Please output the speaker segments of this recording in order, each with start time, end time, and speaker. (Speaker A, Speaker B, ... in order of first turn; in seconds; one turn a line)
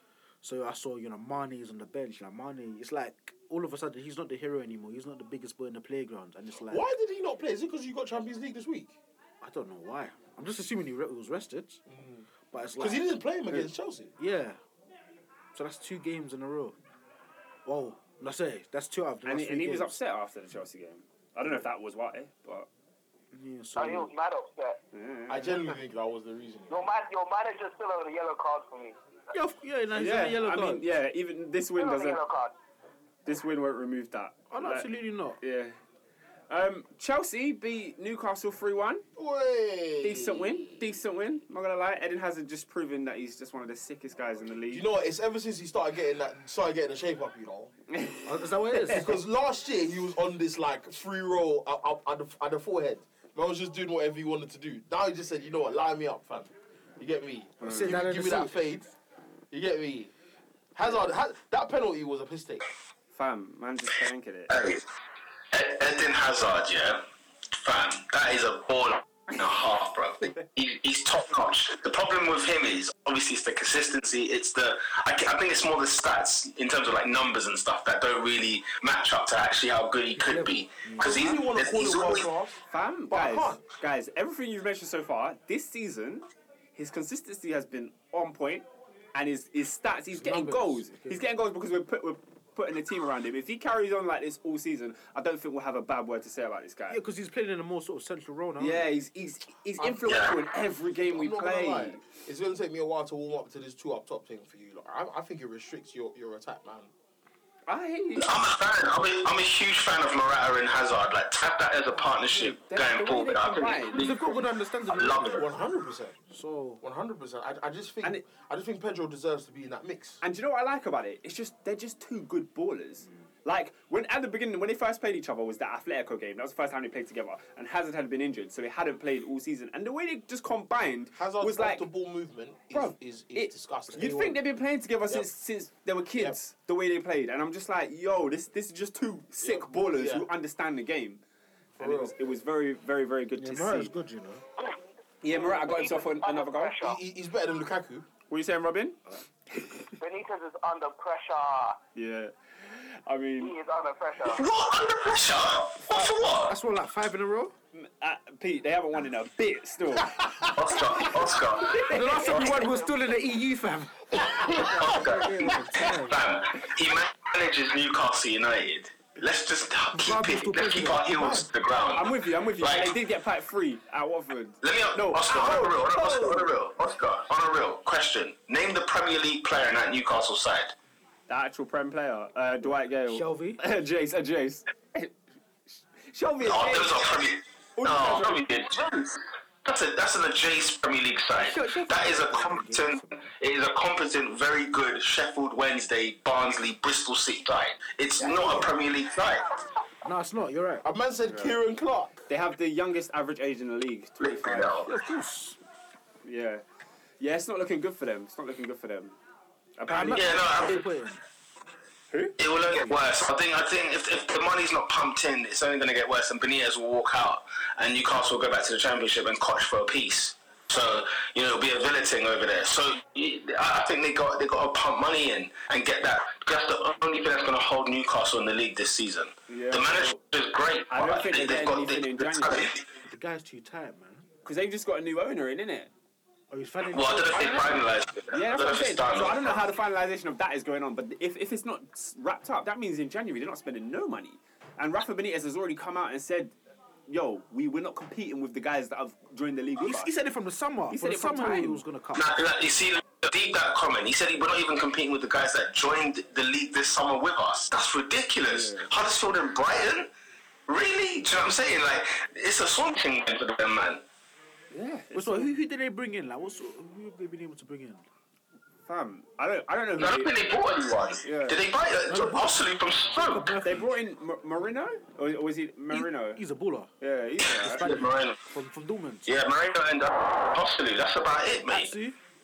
Speaker A: 0.4-6.8
Speaker B: 6.7-8.9
Speaker A: 9.4-11.8
Speaker B: 11.9-12.3
Speaker A: 12.5-13.1
Speaker B: 12.8-14.1
Speaker A: 14.2-14.6
Speaker A: 15.5-16.8
Speaker A: 17.6-20.0
Speaker C: 19.2-22.7
Speaker A: 23.3-24.1
Speaker D: 23.8-24.8
Speaker C: 24.9-25.6
Speaker B: 25.3-26.8
Speaker D: 26.7-29.0
Speaker A: 29.3-31.0
Speaker C: 29.9-32.2
Speaker D: 31.8-32.5
Speaker C: 33.2-34.9
Speaker A: 34.5-35.4
Speaker C: 35.4-35.8
Speaker C: 36.5-39.0
Speaker B: 39.2-40.8
Speaker C: 40.0-44.9
Speaker B: 44.7-47.7
Speaker C: 47.9-48.9
Speaker A: 48.2-49.2
Speaker B: 48.9-58.9
Speaker C: 57.6-58.0
Speaker A: 57.6-58.8
Speaker B: 59.5-60.1
Speaker B: 60.8-62.7
Speaker C: 63.1-64.6
Speaker E: 64.5-64.8
Speaker E: 65.5-67.0
Speaker E: 67.6-82.3
Speaker A: 80.2-81.4
Speaker B: 81.0-82.6
Speaker C: 82.7-97.0
Speaker B: 83.1-83.6
Speaker A: 90.1-91.2
Speaker A: 96.9-98.9
Speaker C: 98.6-102.0
Speaker B: 99.8-100.2
Speaker E: 100.1-100.3
Speaker B: 101.1-106.9
Speaker C: 107.7-108.4
Speaker E: 108.2-115.5
Speaker C: 112.0-114.0
Speaker A: 113.9-115.5
Speaker B: 115.3-116.2
Speaker A: 116.3-116.8
Speaker B: 116.8-120.2
Speaker C: 120.2-131.9
Speaker B: 131.1-134.1
Speaker C: 132.7-141.2
Speaker A: 133.9-134.4
Speaker B: 139.4-140.3
Speaker C: 141.8-143.9
Speaker B: 141.8-142.2
Speaker A: 143.4-144.4
Speaker C: 145.2-146.8
Speaker D: 145.3-147.0
Speaker B: 146.8-148.1
Speaker C: 148.3-149.9
Speaker D: 150.0-151.8
Speaker C: 151.9-153.5
Speaker D: 153.4-154.5
Speaker E: 154.2-156.6
Speaker A: 156.5-157.6
Speaker C: 157.7-160.2
Speaker E: 160.5-162.6
Speaker C: 161.6-162.7
Speaker A: 161.8-166.2
Speaker D: 162.4-162.9
Speaker E: 164.5-172.9
Speaker A: 169.9-171.5
Speaker C: 171.9-176.5
Speaker E: 174.6-180.7
Speaker C: 181.3-185.1
Speaker A: 183.1-183.6
Speaker C: 185.9-187.0
Speaker E: 186.4-199.5
Speaker C: 187.8-188.5
Speaker A: 191.3-193.2
Speaker A: 198.2-198.7
Speaker A: 200.0-200.9
Speaker B: 200.8-202.3
Speaker C: 201.3-201.6
Speaker C: 202.3-204.8
Speaker E: 204.2-204.9
Speaker A: 204.8-205.6
Speaker C: 206.2-206.6
Speaker C: 207.2-209.2
Speaker C: 209.8-210.5
Speaker A: 209.9-211.2
Speaker E: 210.1-210.8
Speaker C: 212.1-212.4
Speaker E: 212.4-232.8
Speaker C: 229.5-230.2
Speaker C: 230.9-232.7
Speaker A: 233.1-234.3
Speaker C: 234.4-235.9
Speaker A: 236.5-237.9
Speaker E: 236.9-239.7
Speaker C: 238.3-246.6
Speaker C: 247.1-250.1
Speaker A: 249.8-252.3
Speaker C: 250.9-251.8
Speaker E: 252.2-260.1
Speaker C: 258.5-258.9
Speaker E: 260.7-264.0
Speaker C: 264.7-265.5
Speaker A: 265.1-268.1
Speaker C: 268.9-270.4
Speaker E: 270.0-273.6
Speaker C: 271.2-271.6
Speaker A: 272.1-274.0
Speaker C: 273.6-276.4
Speaker A: 275.9-276.9
Speaker C: 277.0-277.9
Speaker E: 277.5-278.4
Speaker A: 277.5-279.3
Speaker E: 279.3-281.9
Speaker A: 281.7-282.2